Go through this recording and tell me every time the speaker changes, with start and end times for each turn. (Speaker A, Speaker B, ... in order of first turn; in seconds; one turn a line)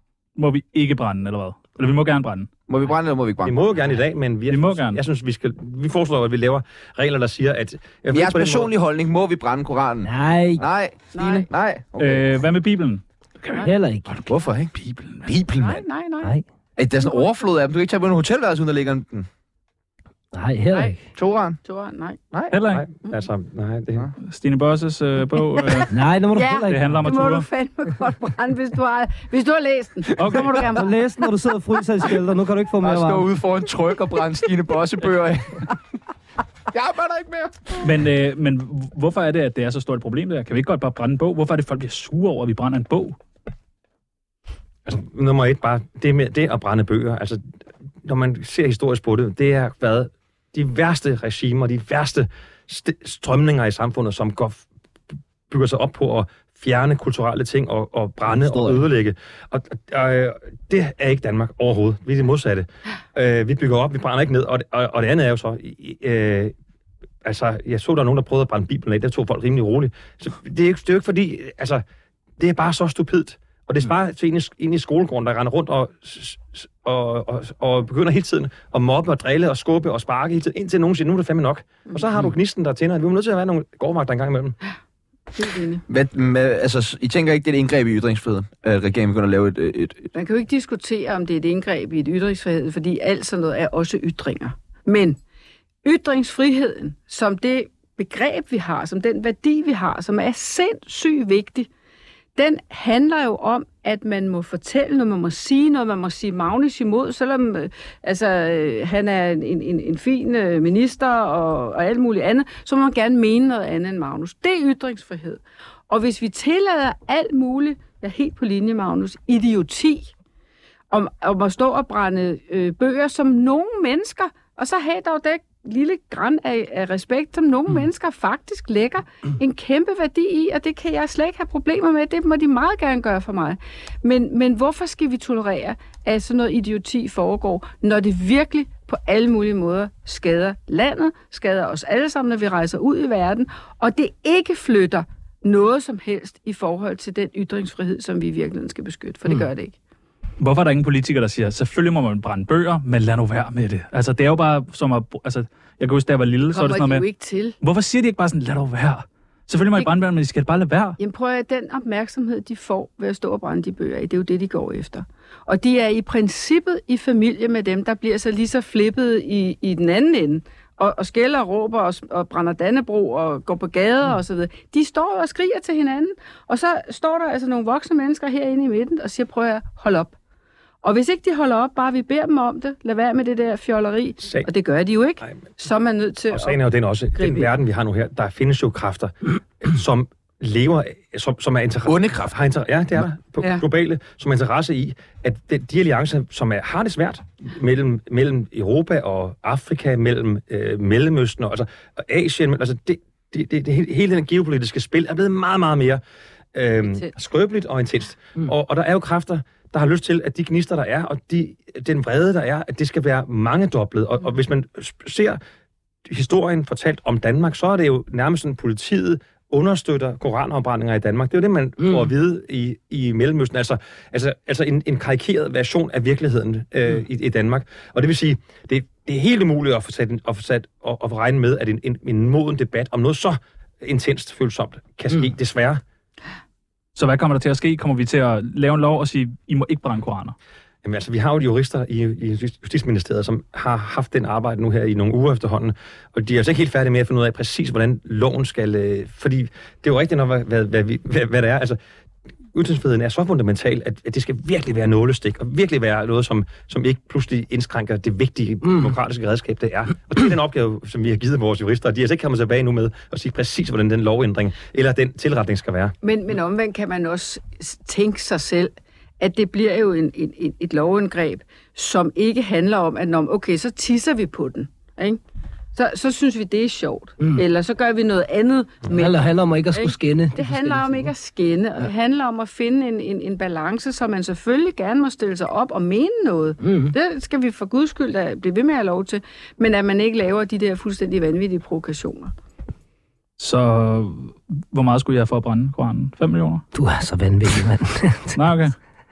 Speaker A: 0.3-2.5
Speaker B: 2.7-3.5
Speaker C: 3.4-8.7
Speaker A: 4.5-5.0
Speaker B: 8.1-12.3
Speaker D: 10.0-10.6
Speaker E: 11.1-11.5
Speaker A: 12.0-14.2
Speaker D: 13.6-14.1
Speaker B: 14.2-14.7
Speaker A: 14.7-15.3
Speaker B: 15.2-15.8
Speaker E: 15.6-16.3
Speaker B: 16.8-19.3
Speaker E: 17.0-17.3
Speaker D: 20.3-21.0
Speaker B: 21.1-21.6
Speaker E: 21.6-22.2
Speaker B: 22.3-22.6
Speaker A: 22.5-22.8
Speaker C: 22.7-24.1
Speaker A: 24.3-25.9
Speaker D: 25.9-27.1
Speaker E: 26.3-31.2
Speaker A: 26.7-27.4
Speaker A: 30.2-30.7
Speaker D: 30.7-33.3
Speaker B: 32.8-35.6
Speaker B: 36.7-37.8
Speaker A: 37.8-43.2
Speaker C: 44.9-47.4
Speaker C: 48.0-54.6
Speaker C: 55.5-66.5
Speaker D: 58.2-58.9
Speaker C: 67.2-71.8
Speaker C: 72.4-84.5
Speaker E: 85.3-85.8
Speaker B: 85.9-90.1
Speaker E: 90.1-95.2
Speaker E: 95.8-101.7
Speaker E: 102.3-120.1
Speaker E: 120.9-149.8
Speaker A: 150.4-157.0
Speaker E: 156.5-157.6
Speaker A: 157.6-161.0
Speaker E: 161.0-180.1
Speaker E: 180.8-186.6
Speaker C: 184.2-184.5
Speaker C: 186.3-206.0
Speaker E: 187.1-187.5
Speaker B: 191.8-192.3
Speaker C: 206.5-215.4
Speaker C: 216.1-235.8
Speaker D: 221.8-222.1
Speaker A: 236.9-240.3
Speaker C: 240.8-251.8
Speaker C: 252.5-265.9
Speaker E: 266.0-275.2
Speaker E: 275.7-279.2
Speaker D: 278.9-281.1
Speaker E: 279.7-292.3
Speaker D: 286.6-286.9
Speaker A: 293.4-296.6
Speaker D: 296.7-298.4
Speaker A: 298.3-298.7